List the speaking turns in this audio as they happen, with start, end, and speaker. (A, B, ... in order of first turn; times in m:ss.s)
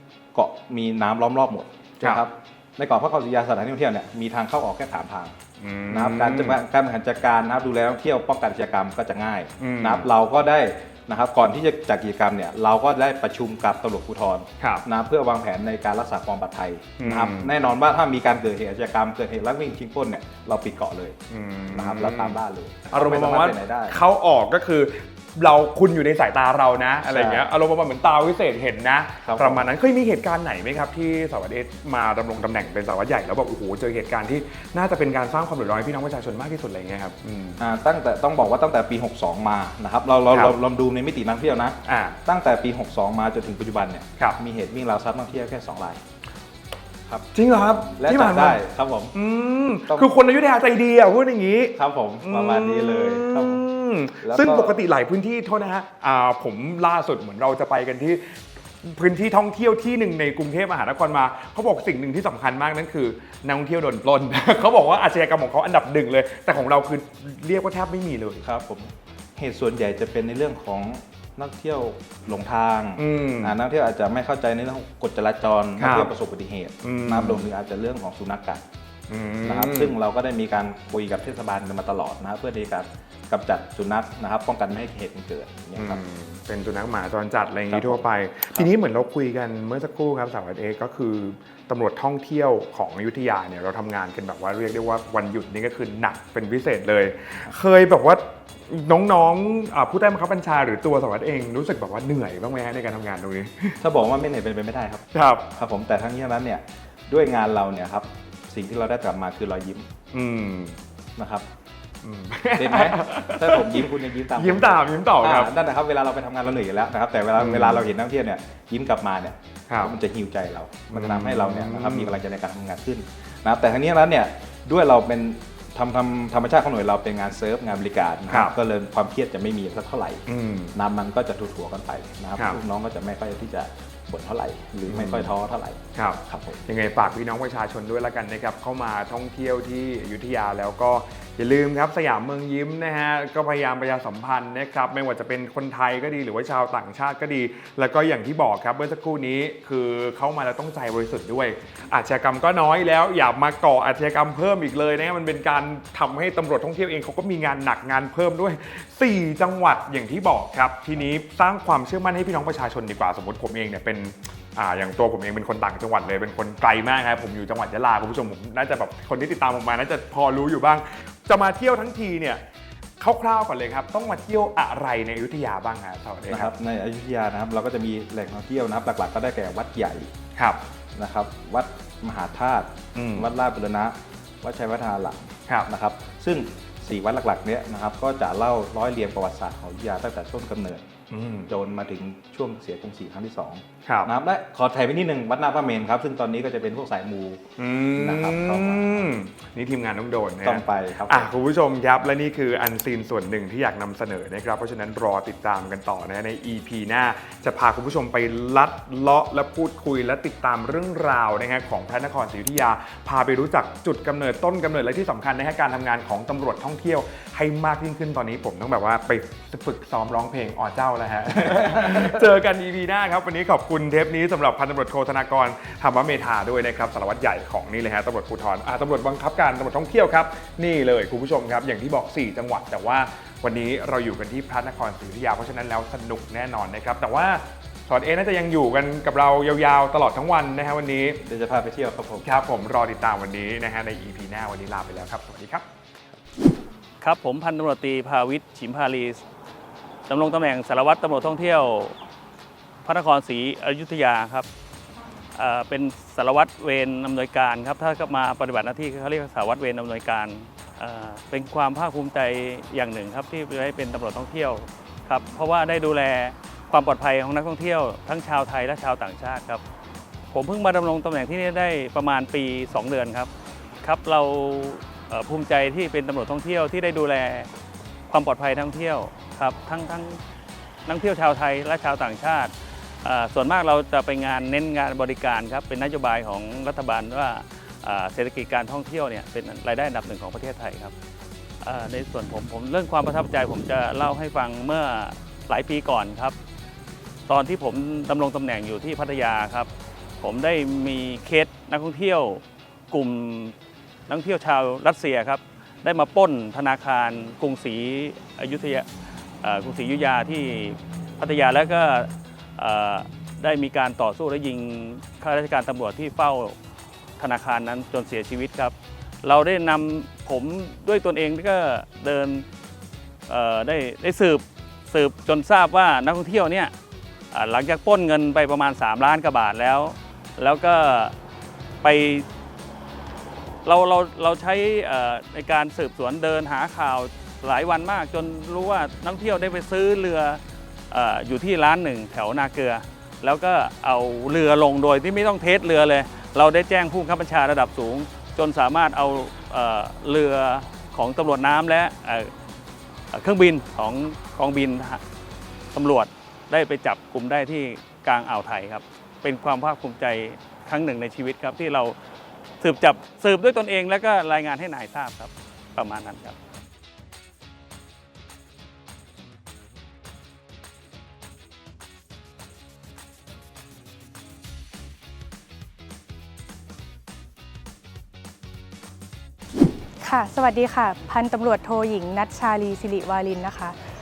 0:00.4-0:05.4 A
0:05.6-0:06.6 B
0:05.9-0:21.2 A
0:09.6-0:10.1 B
0:17.0-0:17.5 B
0:21.3-0:22.4 B
0:21.7-0:24.0 A
0:22.9-0:37.6 B
0:27.1-0:27.4 A
0:29.2-0:29.7 A
0:37.6-0:46.0 A
0:41.8-0:42.2 B
0:47.3-0:48.6 B
0:48.0-0:49.1 A
0:49.1-1:08.4 B
0:51.8-0:53.6 A
0:54.2-0:54.8 A
1:08.4-1:18.6 A
1:13.0-1:13.5 B
1:15.8-1:16.1 B
1:16.8-1:17.4 B
1:19.1-1:19.9 B
1:19.4-1:26.0 A
1:25.8-1:43.8 B
1:27.7-1:28.7 A
1:43.8-1:49.9 A
1:45.1-1:45.5 B
1:50.1-1:50.8 B
1:51.2-1:51.5 A
1:52.0-1:55.5 B
1:52.6-2:16.6 A
1:57.4-1:57.9 B
1:59.7-2:00.0 B
2:00.9-2:02.2 B
2:10.3-2:10.7 B
2:14.9-2:15.3 B
2:16.0-2:52.4 B
2:53.0-2:56.5 B
2:56.3-3:00.1 A
3:01.0-3:10.8 A
3:03.0-3:03.3 B
3:11.1-3:11.5 B
3:11.5-3:17.4 A
3:17.6-4:01.2 B
3:18.0-3:19.1 A
3:20.4-3:21.3 A
3:41.7-3:42.2 A
4:01.2-4:02.2 A
4:02.2-4:05.6 B
4:07.0-4:09.2 C
4:10.1-4:12.0 C
4:12.8-4:14.5 C
4:15.4-4:29.6 C
4:30.3-4:33.3 C
4:33.8-4:37.5 C
4:38.1-4:40.2 C
4:40.9-4:50.9 C
4:51.6-4:56.4 C
4:57.3-4:59.7 C
5:00.2-5:03.6 C
5:04.1-5:08.9 C
5:09.4-5:16.6 C
5:17.2-5:22.4 C
5:23.3-5:26.7 C
5:27.3-5:31.1 C
5:31.8-5:32.3 C
5:33.6-5:40.4 C
5:40.9-5:52.3 C
5:53.1-5:55.0 C
5:55.7-6:02.0 C
6:02.6-6:06.4 C
6:20.0-6:23.8 D